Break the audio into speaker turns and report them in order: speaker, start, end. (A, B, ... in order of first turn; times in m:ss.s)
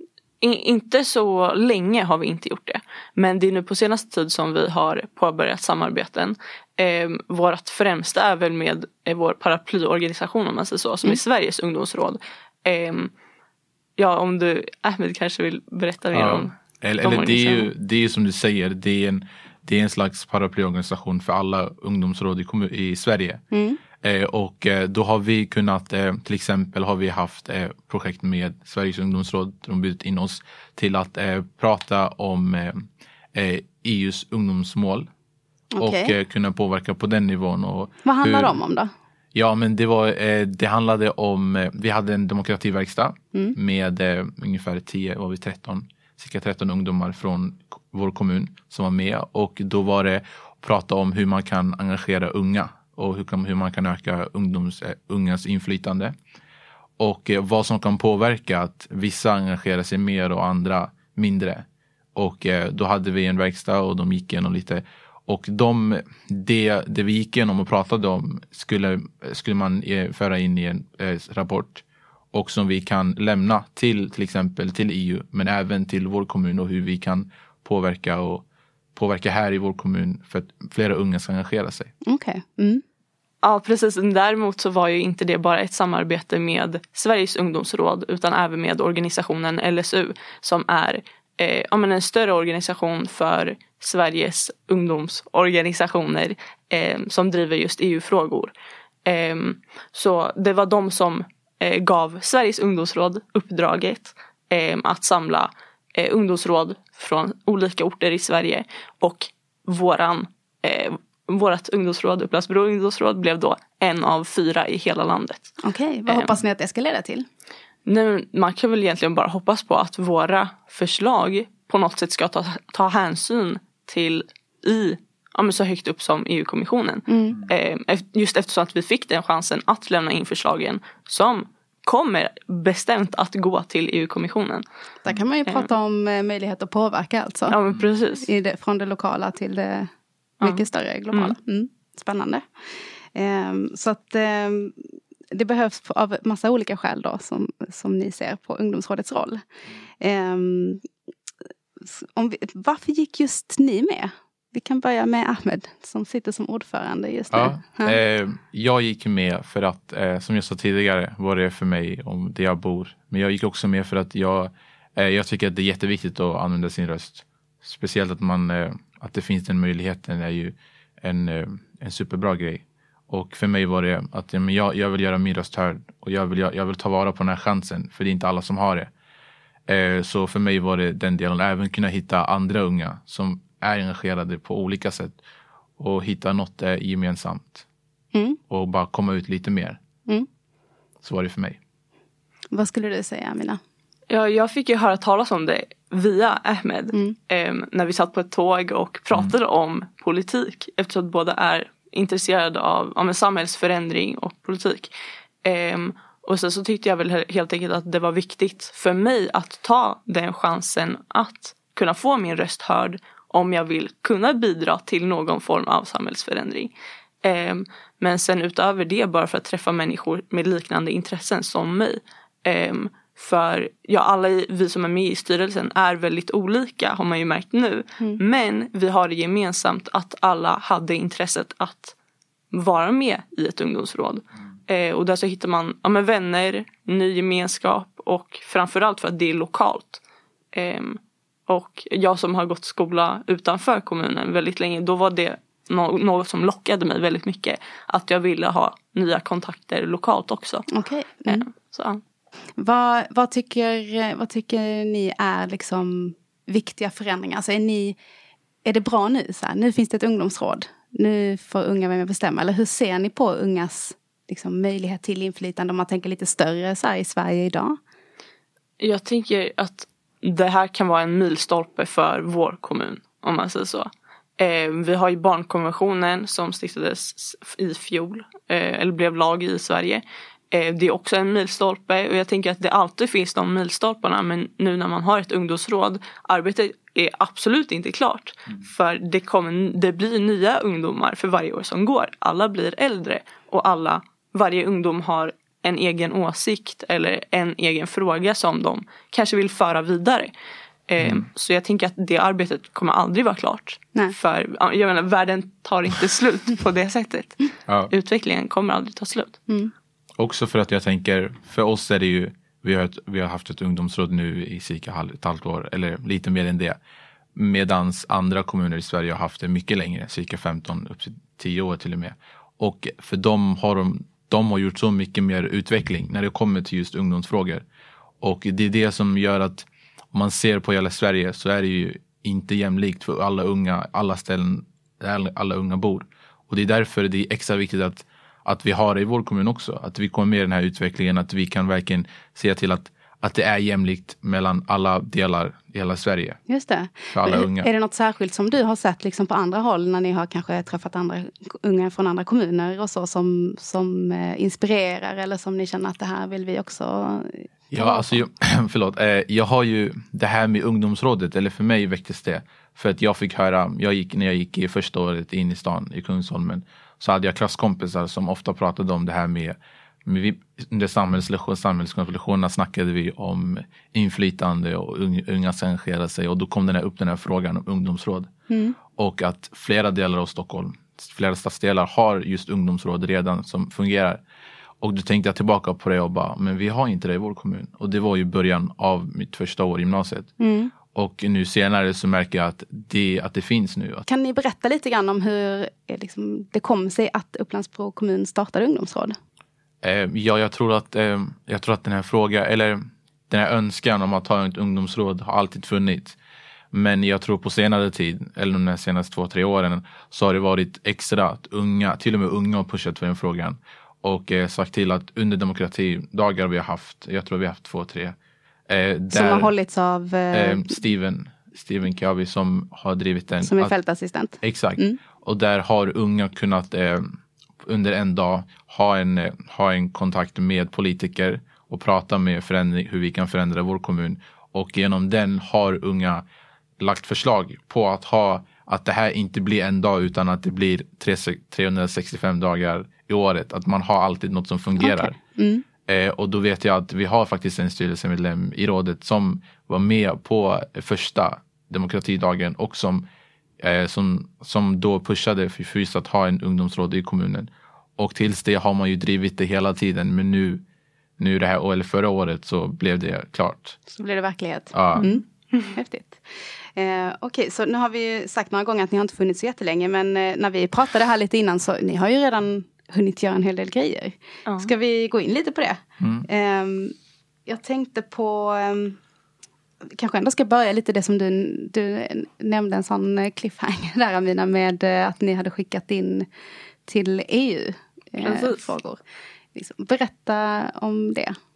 0:00.4-0:13.1 A
0:14.0-0:17.7 A
0:16.1-0:23.4 B
0:23.5-0:23.8 C
0:24.0-0:35.1 B
0:35.7-0:36.1 C
0:35.8-0:38.6 B
0:38.0-0:38.9 C
0:39.3-0:56.1 B
0:57.0-1:18.4 B
1:19.0-1:21.9 B
1:22.0-1:22.8 C
1:23.4-1:38.5 A
1:39.1-1:55.5 A
1:55.6-1:57.3 C
1:56.1-1:56.4 A
1:57.9-2:14.6 A
2:07.1-2:07.4 C
2:15.0-2:17.6 C
2:17.5-2:18.3 A
2:18.2-2:19.9 C
2:20.4-2:21.4 A
2:20.4-2:22.4 C
2:23.2-2:24.8 C
2:25.3-2:29.4 C
2:30.0-2:30.8 C
2:31.9-2:38.0 C
2:37.3-2:58.9 B
2:59.7-3:05.2 B
3:05.8-3:07.7 B
3:08.1-3:08.4 C
3:08.5-3:09.8 B
3:11.0-3:11.6 B
3:12.5-3:13.6 C
3:14.1-3:24.9 A
3:25.4-3:36.7 A
3:37.2-3:52.0 A
3:52.5-4:00.0 A
4:00.5-4:10.7 A
4:10.7-4:11.5 C
4:11.3-4:12.0 A
4:12.6-4:18.0 C
4:18.6-4:27.8 C
4:28.8-5:00.3 A
5:00.9-5:09.4 A
5:01.0-5:01.3 B
5:10.2-5:16.8 B
5:17.4-5:27.6 B
5:28.2-5:46.4 B
5:46.5-5:58.2 C
5:47.1-5:47.7 B
5:57.7-6:18.3 B
6:18.5-6:18.8 C
6:18.9-6:24.2 B
6:24.8-6:30.3 B
6:30.4-6:30.7 C
6:30.9-6:34.0 B
6:34.1-6:39.2 C
6:39.8-6:46.2 B
6:46.7-6:58.2 B
6:58.7-6:59.5 B
6:59.1-7:00.8 C
7:00.3-7:03.8 B
7:03.4-7:05.0 C
7:04.4-7:16.2 B
7:16.8-7:25.2 B
7:24.8-7:25.6 C
7:25.9-7:33.1 B
7:33.6-7:40.6 B
7:41.2-7:43.8 B
7:43.9-7:46.2 C
7:44.7-7:45.1 B
7:46.8-7:57.0 C
7:56.0-7:56.3 B
7:57.5-7:59.0 C
7:59.9-8:06.3 C
8:06.9-8:09.0 C
8:08.2-8:08.7 A
8:09.6-8:11.4 C